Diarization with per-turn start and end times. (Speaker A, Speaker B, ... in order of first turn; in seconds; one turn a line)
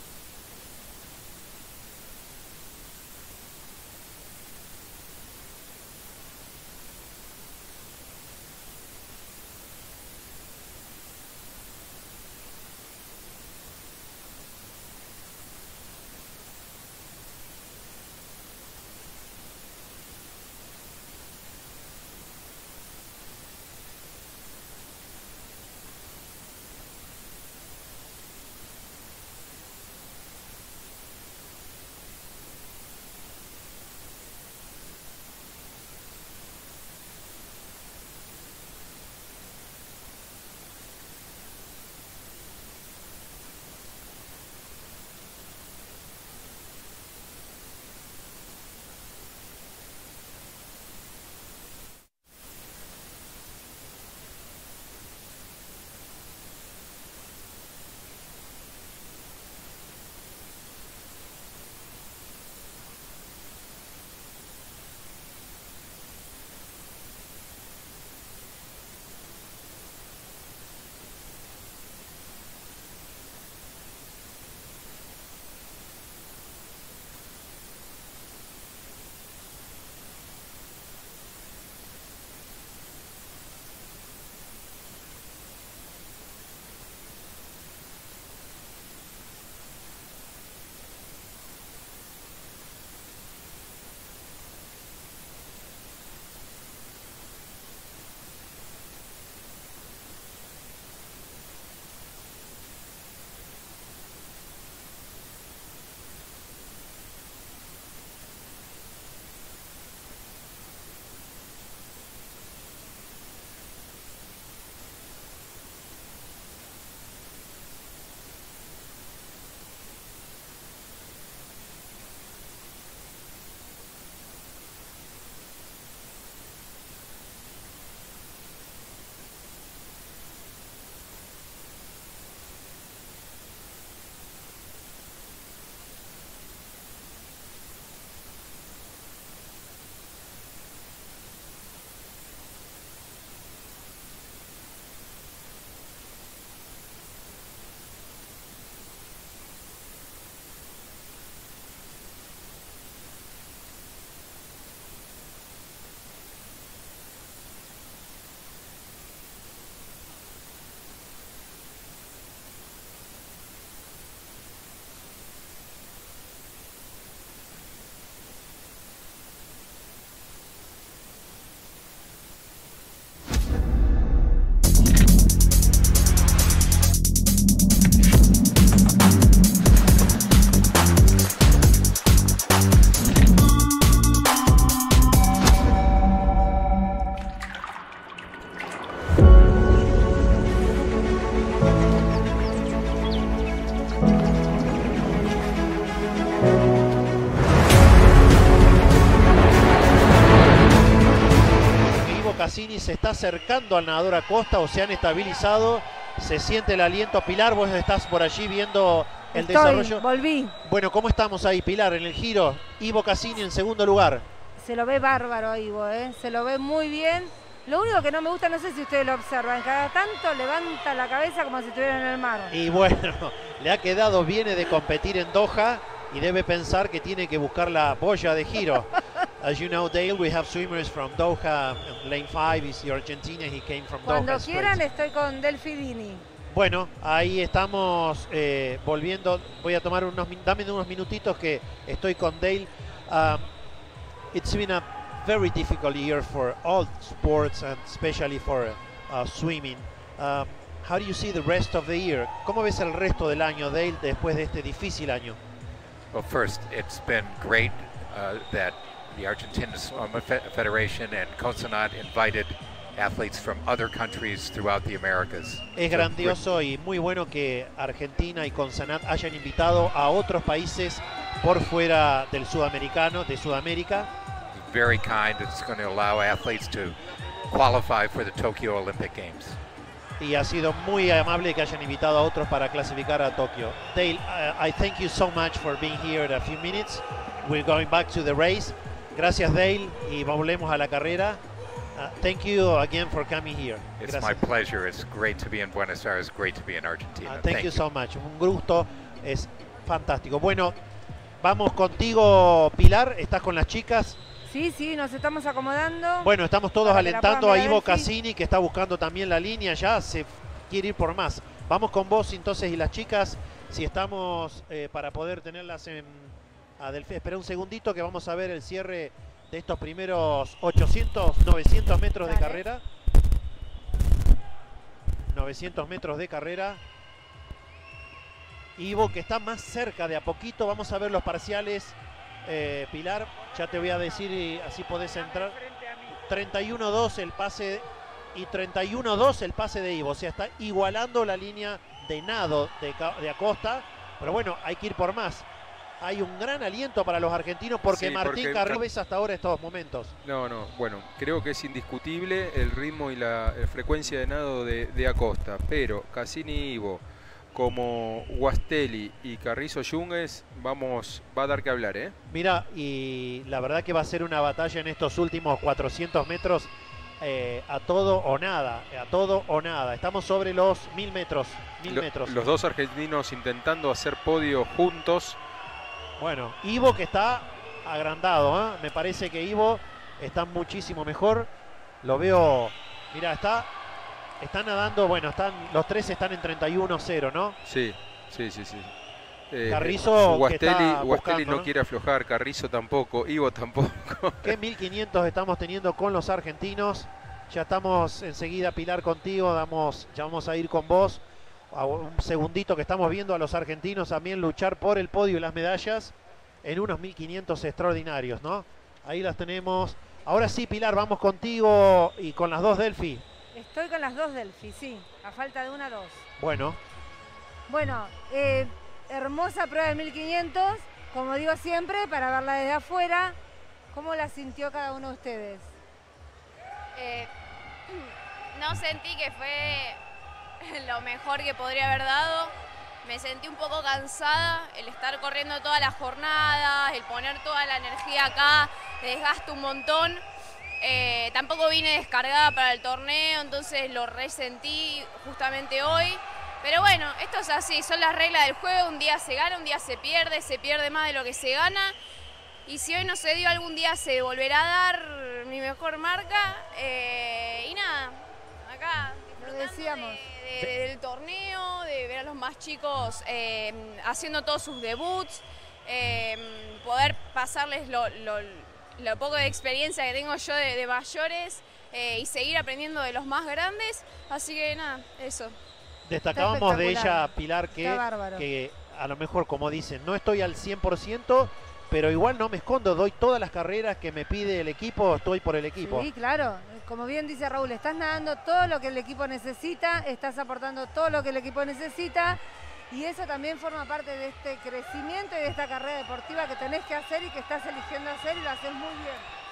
Speaker A: 201.8-210.1
Speaker B: 209.3-210.5
Speaker A: 210.6-214.2
Speaker B: 214.6-222.5
Speaker A: 222.5-234.8
Speaker B: 234.0-236.2
Speaker A: 236.5-243.5
Speaker A: 244.3-255.4
Speaker C: 256.1-266.4
Speaker A: 265.7-274.1
Speaker C: 274.5-279.6
Speaker A: 280.2-291.4
Speaker A: 291.9-294.5
Speaker C: 294.0-297.8
Speaker A: 297.3-300.8
Speaker A: 301.4-304.2
Speaker B: 304.4-308.1
Speaker A: 306.2-322.8
Speaker B: 322.2-322.6
Speaker A: 325.3-326.8
Speaker A: 328.8-335.6
Speaker A: 336.1-345.5
Speaker A: 346.0-350.1
Speaker D: 347.9-348.8
Speaker D: 350.2-362.1
Speaker A: 362.3-372.4
Speaker D: 371.9-375.4
Speaker A: 376.2-381.5
Speaker A: 382.0-383.7
Speaker A: 384.4-387.6
Speaker D: 387.6-388.9
Speaker D: 389.5-394.6
Speaker A: 389.6-391.7
Speaker A: 394.4-413.2
Speaker B: 413.5-416.2
Speaker A: 416.4-416.8
Speaker B: 417.7-423.4
Speaker B: 423.9-425.7
Speaker E: 426.9-427.3
Speaker E: 427.9-430.0
Speaker E: 430.6-440.2
Speaker E: 440.8-452.0
Speaker E: 452.6-475.6
Speaker B: 459.4-460.1
Speaker A: 476.0-486.1
Speaker B: 476.3-478.4
Speaker B: 485.8-492.4
Speaker B: 492.9-499.3